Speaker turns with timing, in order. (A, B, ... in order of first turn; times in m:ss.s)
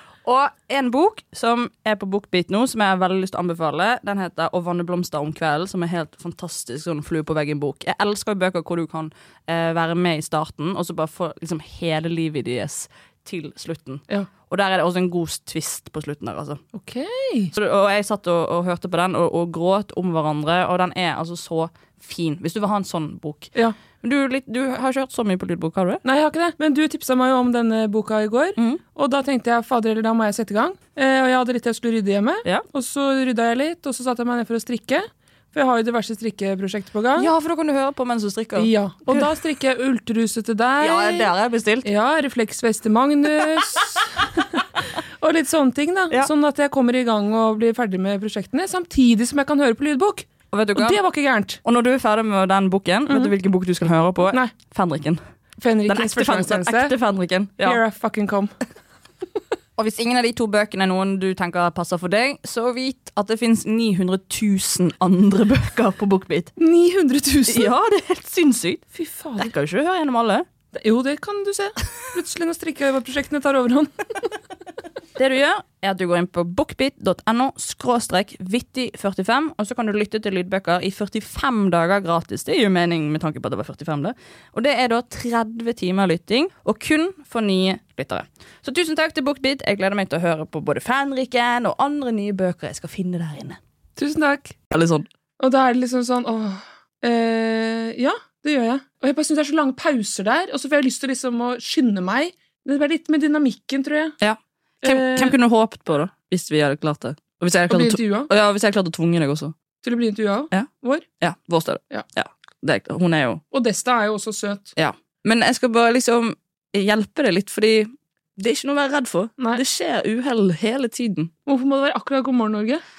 0:00.2-0:16.6 A
0:16.7-0:17.5 B
0:17.5-0:26.0 A
0:26.0-0:37.3 B
0:37.2-0:39.3 A
0:38.6-0:41.3 B
0:40.8-0:41.9 A
0:41.8-0:44.4 B
0:45.2-0:51.6 B
0:50.5-0:51.0 A
0:51.6-0:55.2 A
0:53.1-0:53.3 B
0:55.6-0:56.9 B
0:55.9-0:57.8 A
0:57.6-0:58.5 B
0:59.8-1:06.5 A
1:06.6-1:07.7 B
1:07.5-1:10.4 A
1:08.9-1:09.5 B
1:10.7-1:14.3 B
1:15.2-1:33.6 A
1:34.0-1:34.6 B
1:34.7-1:35.0 A
1:35.4-1:44.2 B
1:44.2-1:49.5 A
1:44.8-1:45.3 B
1:47.7-1:48.3 B
1:49.8-1:51.0 B
1:51.2-1:53.4 A
1:53.5-1:54.7 B
1:54.8-2:01.3 A
2:01.4-2:02.8 B